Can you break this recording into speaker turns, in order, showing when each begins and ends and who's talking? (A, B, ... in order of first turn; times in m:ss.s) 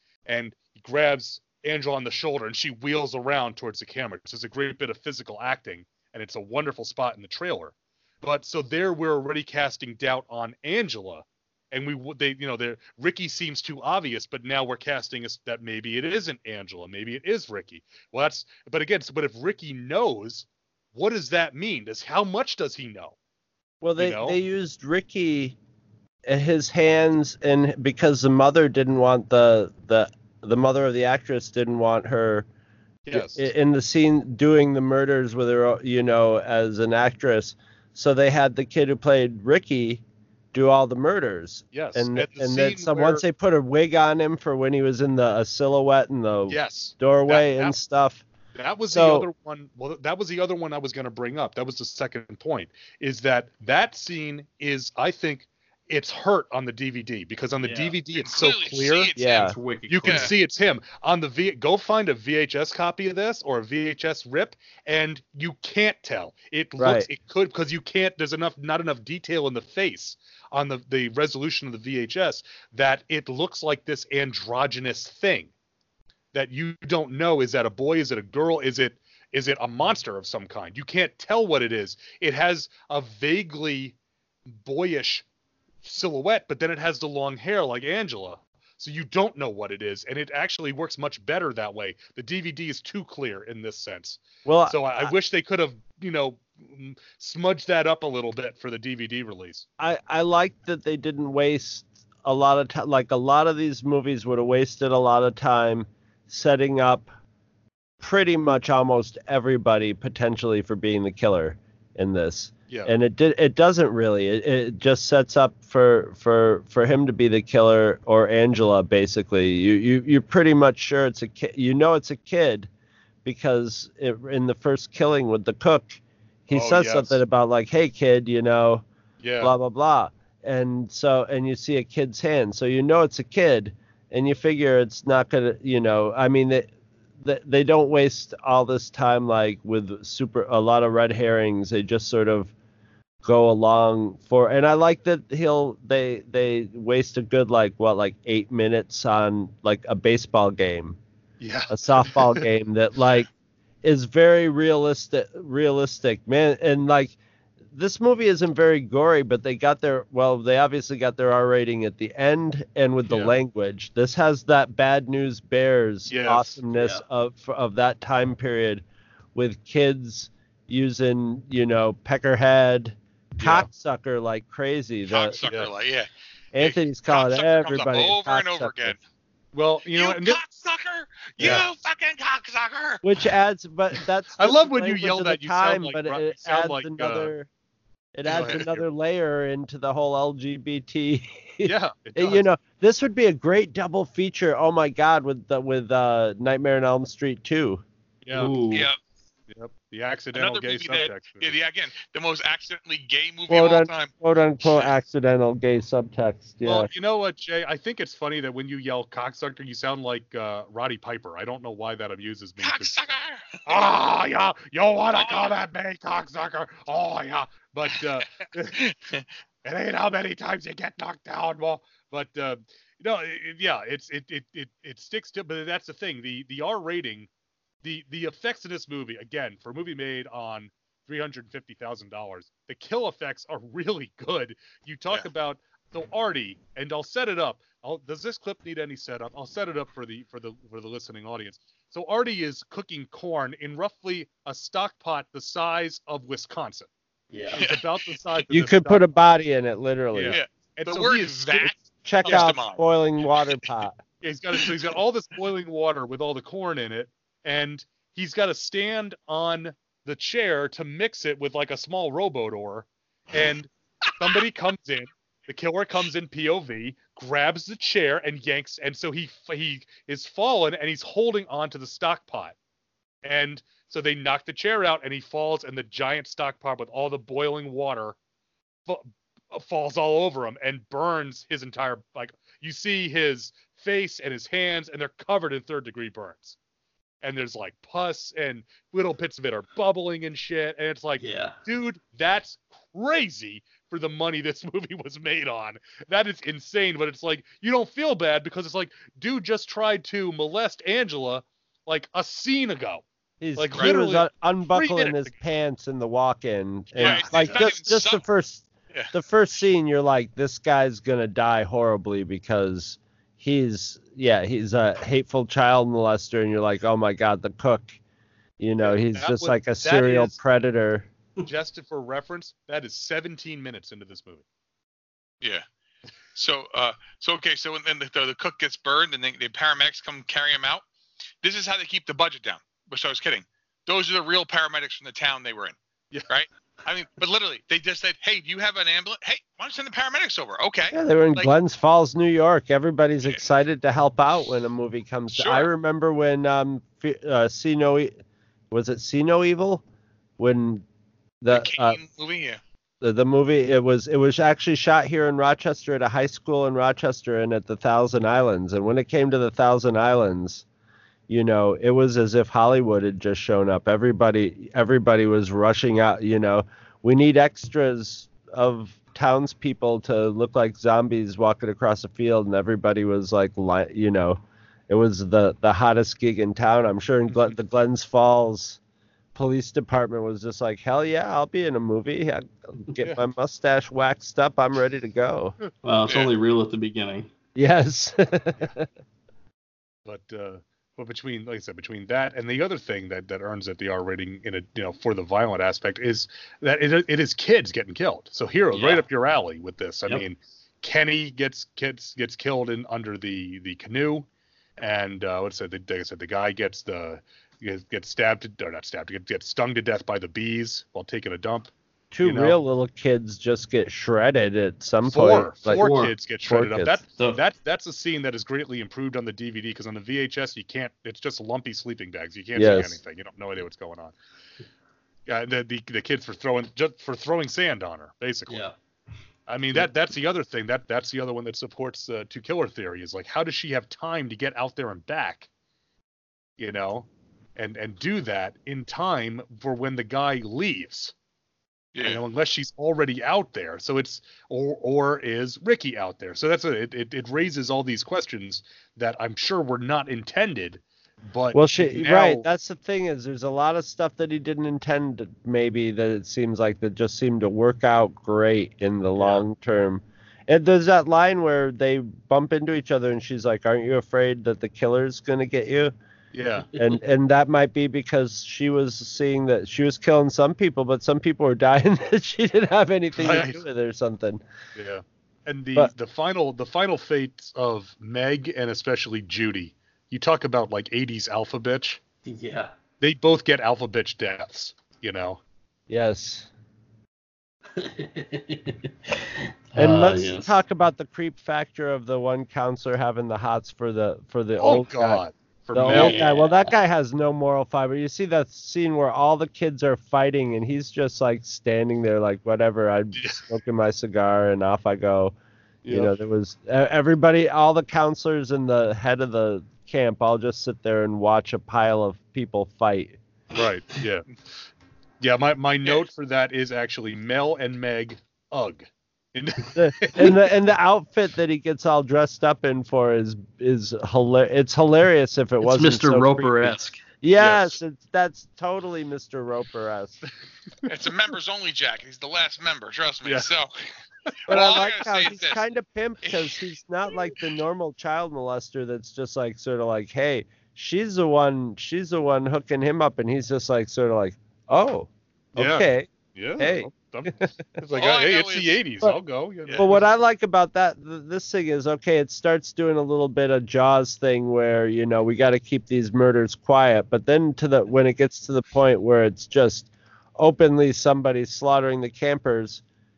0:00.3-0:23.2 A
0:23.8-0:25.6 B
0:24.0-0:24.4 A
0:26.3-0:32.5 B
0:33.1-0:33.5 A
0:33.1-0:40.0 B
0:40.5-0:48.2 B
0:41.7-0:43.2 A
0:46.5-0:47.7 A
0:48.6-0:59.2 A
0:48.9-0:49.3 B
0:57.6-0:58.0 C
0:58.2-0:59.5 D
0:59.2-0:59.6 B
0:59.3-1:00.4 C
0:59.9-1:15.5 A
1:00.0-1:00.3 D
1:06.8-1:07.1 B
1:16.3-1:24.0 A
1:24.5-1:25.2 A
1:25.8-1:39.7 A
1:34.5-1:35.1 B
1:39.8-1:47.1 B
1:48.0-2:02.7 B
2:03.2-2:08.8 B
2:06.5-2:07.2 A
2:09.2-2:09.5 A
2:09.4-2:22.5 B
2:23.2-2:31.0 B
2:31.4-2:32.4 A
2:31.7-2:33.3 B
2:33.8-2:37.2 B
2:37.7-2:48.8 B
2:43.1-2:43.4 A
2:46.1-2:46.6 A
2:46.7-2:47.0 C
2:49.4-2:55.4 B
2:53.4-2:53.7 A
2:55.1-2:59.0 D
2:55.4-2:55.7 A
2:56.5-2:59.0 B
2:59.5-3:00.4 A
2:59.9-3:03.0 D
3:01.4-3:01.7 A
3:03.0-3:07.5 B
3:04.4-3:07.3 A
3:08.2-3:17.8 B
3:08.3-3:08.8 A
3:11.6-3:12.5 A
3:18.2-3:18.6 A
3:18.3-3:18.9 C
3:18.7-3:19.0 D
3:19.5-3:21.6 A
3:20.4-3:24.1 D
3:23.5-3:26.9 B
3:24.6-3:24.9 D
3:26.6-3:33.0 A
3:32.6-3:33.5 D
3:33.7-3:38.8 A
3:35.2-3:35.6 D
3:38.7-3:39.3 D
3:39.6-3:47.3 A
3:47.8-4:06.9 A
4:07.3-4:07.6 C
4:07.5-4:09.0 A
4:07.6-4:08.2 D
4:08.5-4:10.4 B
4:10.1-4:11.7 A
4:10.3-4:12.8 D
4:12.0-4:14.0 B
4:12.2-4:12.5 A
4:14.2-4:32.6 A
4:24.0-4:24.4 D
4:33.2-4:38.2 A
4:38.9-4:46.6 A
4:47.2-5:03.0 A
4:51.2-4:51.6 C
5:03.4-5:18.0 B
5:03.6-5:05.4 A
5:07.0-5:07.7 A
5:07.0-5:08.2 D
5:18.6-5:21.1 B
5:18.8-5:20.4 A
5:21.4-5:24.4 A
5:26.4-5:30.8 D
5:31.4-5:35.8 D
5:36.3-5:41.5 D
5:40.9-5:48.1 B
5:45.3-5:45.7 D
5:48.7-5:49.8 B
5:50.4-5:50.8 B
5:51.4-5:52.0 B
5:51.5-5:52.6 D
5:53.0-6:00.6 B
6:01.3-6:18.8 B
6:19.4-6:25.6 B
6:25.8-6:27.3 C
6:27.6-6:28.9 B
6:30.1-6:44.3 A
6:38.7-6:39.0 C
6:44.8-6:52.6 A
6:52.1-6:55.9 B
6:55.1-7:04.2 A
6:55.7-6:56.1 C
6:56.4-6:57.0 B
7:02.6-7:03.0 B
7:05.3-7:08.6 A
7:08.5-7:08.8 C
7:09.5-7:15.5 A
7:16.6-7:21.1 A
7:22.0-7:22.2 D
7:22.0-7:32.4 A
7:31.5-7:45.9 B
7:39.2-7:39.4 A
7:46.3-7:46.7 A
7:46.8-7:54.4 B
7:53.2-7:53.6 A
7:54.8-8:02.0 A
8:02.3-8:02.7 C
8:03.0-8:05.4 A
8:05.9-8:06.5 B
8:07.7-8:10.5 C
8:09.8-8:15.2 B
8:14.6-8:16.2 A
8:15.7-8:25.4 B
8:15.9-8:16.7 C
8:23.2-8:23.4 A
8:25.8-8:26.1 A
8:25.9-8:33.2 B
8:33.5-8:34.3 A
8:35.2-8:40.4 A
8:39.8-8:50.2 B
8:45.6-8:47.0 C
8:47.4-8:47.8 A
8:50.9-8:53.7 D
8:54.5-9:07.6 B
8:54.5-8:55.6 D
8:56.2-8:56.6 D
9:05.6-9:10.1 A
9:07.9-9:08.8 D
9:09.8-9:22.8 B